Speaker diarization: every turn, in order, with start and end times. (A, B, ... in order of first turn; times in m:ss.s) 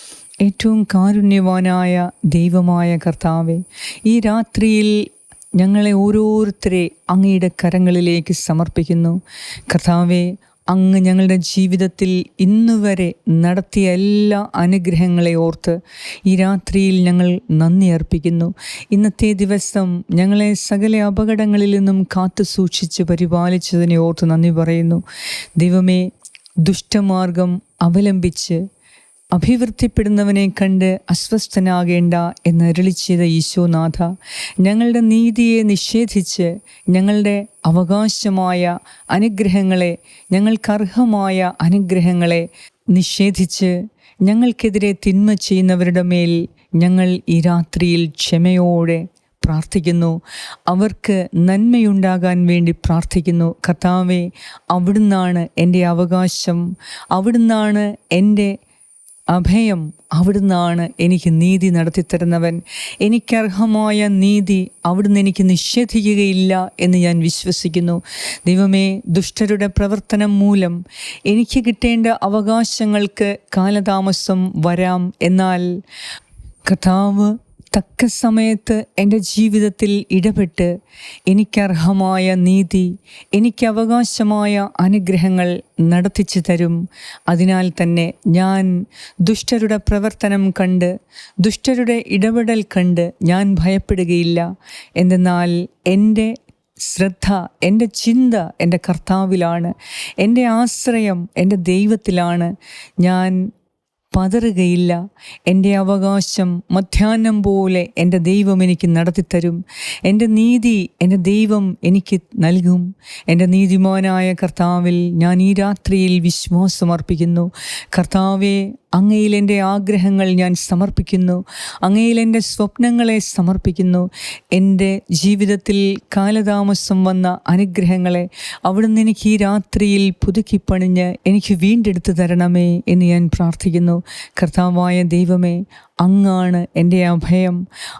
0:00.4-0:25.0 A
0:25.6-0:26.1 A
0:26.6-0:28.6 A
0:29.3-0:43.7 A
0:44.2-0:58.6 A
0:59.3-1:15.8 A
1:16.6-1:20.7 A
1:21.3-1:26.8 A
1:27.3-1:28.7 A
1:29.2-1:43.5 A
1:44.1-2:17.6 A